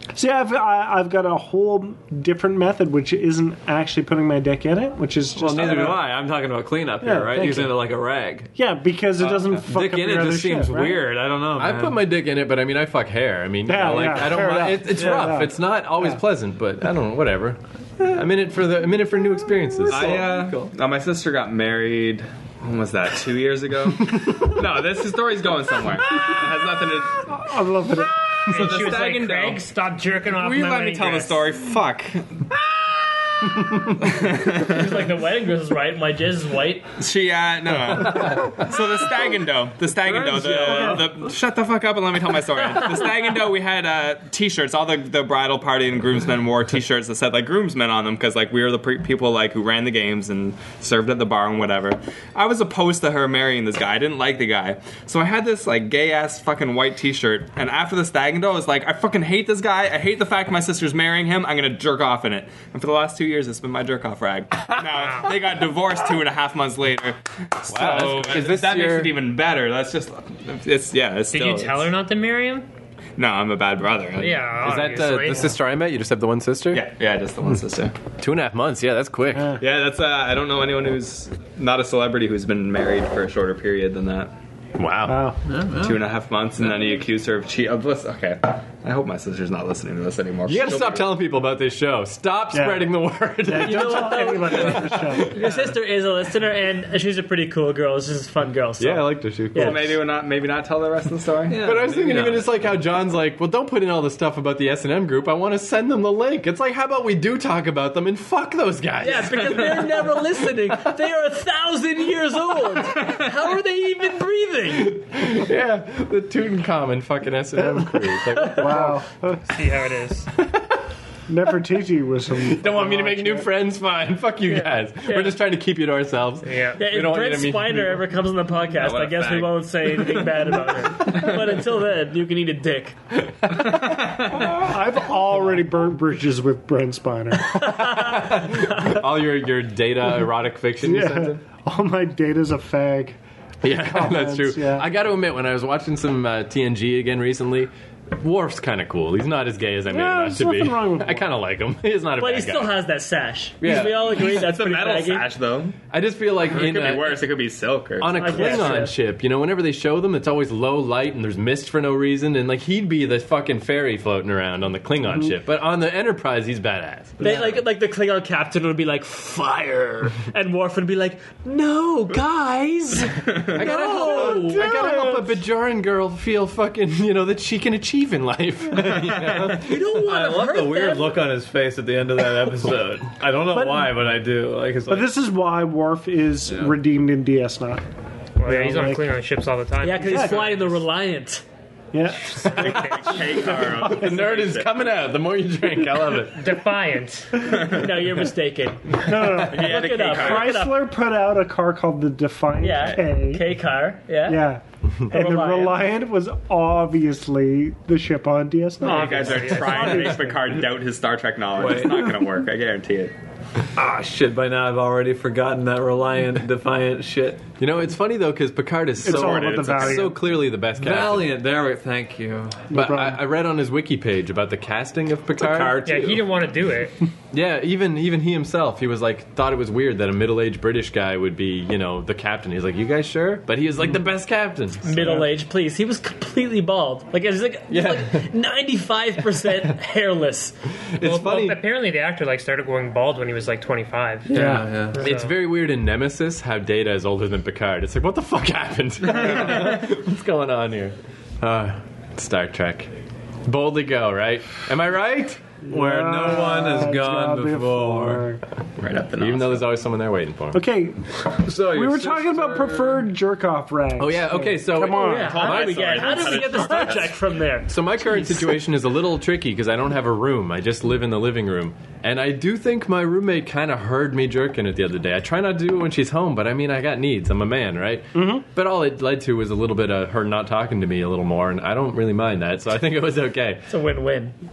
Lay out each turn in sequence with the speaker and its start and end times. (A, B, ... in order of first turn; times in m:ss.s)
0:00.2-0:06.0 A
0:05.4-0:08.5 B
0:07.0-0:07.8 A
0:08.6-0:11.1 A
0:09.2-0:12.0 B
0:11.6-0:20.3 C
0:13.7-0:16.2 A
0:13.8-0:15.4 B
0:19.9-0:27.3 D
0:19.9-0:20.7 B
0:27.3-0:28.2 A
0:28.3-0:29.6 D
0:28.4-0:31.4 E
0:30.3-0:35.1 D
0:34.4-0:36.9 F
0:37.0-1:11.9 D
0:38.1-0:38.6 C
0:40.0-0:41.1 B
1:07.7-1:09.2 C
1:11.3-1:12.7 E
1:13.2-1:14.6 D
1:14.2-1:15.5 E
1:14.6-1:16.8 C
1:16.7-1:17.9 D
1:18.2-1:19.5 C
1:19.3-1:19.6 A
1:19.6-1:24.3 D
1:24.8-1:25.3 C
1:25.1-1:25.4 A
1:25.4-1:26.1 B
1:25.8-1:31.1 D
1:30.5-1:35.4 C
1:32.5-1:35.4 A
1:33.6-1:40.0 F
1:35.4-1:35.8 B
1:38.8-1:40.0 C
1:39.6-1:41.6 D
1:41.5-1:42.5 B
1:41.6-1:49.8 C
1:49.0-1:55.0 F
1:49.4-1:49.9 D
1:54.7-1:59.0 C
1:57.6-1:59.4 A
1:59.5-2:00.3 E
2:01.3-2:03.5 A
2:02.3-2:08.1 C
2:04.5-2:05.4 F
2:06.4-2:06.8 E
2:06.8-2:13.0 F
2:08.7-2:10.3 D
2:11.0-2:11.3 D
2:13.5-2:14.6 D
2:14.4-2:17.6 A
2:17.5-2:21.4 C
2:20.8-2:24.9 A
2:23.6-2:32.8 C
2:29.9-2:31.3 A
2:32.2-2:35.3 F
2:33.6-2:34.2 C
2:33.9-2:35.8 D
2:35.9-2:37.2 C
2:36.5-2:38.7 D
2:38.0-2:47.6 C
2:38.2-2:38.9 F
2:47.2-2:55.2 F
2:53.3-2:53.6 D
2:53.5-2:59.7 C
2:59.6-3:01.2 F
2:59.8-3:05.1 B
3:03.5-3:04.0 A
3:04.9-3:07.8 A
3:06.5-3:06.8 B
3:08.4-3:10.8 E
3:08.4-3:09.1 A
3:09.8-3:11.4 F
3:10.0-3:10.5 A
3:11.9-3:14.2 A
3:12.2-3:13.2 E
3:12.5-3:14.7 D
3:13.6-3:16.5 C
3:16.3-3:17.4 E
3:17.4-3:17.9 D
3:17.5-3:20.8 F
3:19.0-3:23.5 A
3:19.4-3:20.6 D
3:22.6-3:24.4 F
3:24.3-3:30.2 A
3:25.1-3:25.8 F
3:28.8-3:30.3 E
3:28.8-3:33.1 D
3:31.6-3:32.0 B
3:33.8-3:37.5 B
3:37.6-3:41.4 C
3:39.0-3:40.1 D
3:39.0-3:40.3 A
3:40.8-3:42.7 B
3:42.7-3:43.2 A
3:42.7-3:46.0 C
3:45.4-3:46.2 B
3:45.8-3:47.0 E
3:47.3-3:55.2 C
3:54.8-4:00.6 F
3:57.7-3:58.3 C
4:00.9-4:01.6 C
4:01.0-4:04.3 E
4:04.3-4:04.7 A
4:04.3-4:05.0 B
4:04.9-4:05.4 E
4:05.0-4:12.9 C
4:09.3-4:09.5 D
4:13.4-4:15.4 C
4:15.7-4:18.4 A
4:15.7-4:18.3 B
4:18.8-4:19.7 D
4:19.2-4:20.6 C
4:20.5-4:25.5 A
4:21.4-4:23.0 B
4:24.0-4:26.7 C
4:25.0-4:28.3 F
4:25.2-4:27.2 D
4:27.7-4:43.6 C
4:38.2-4:38.4 A
4:43.7-4:44.4 F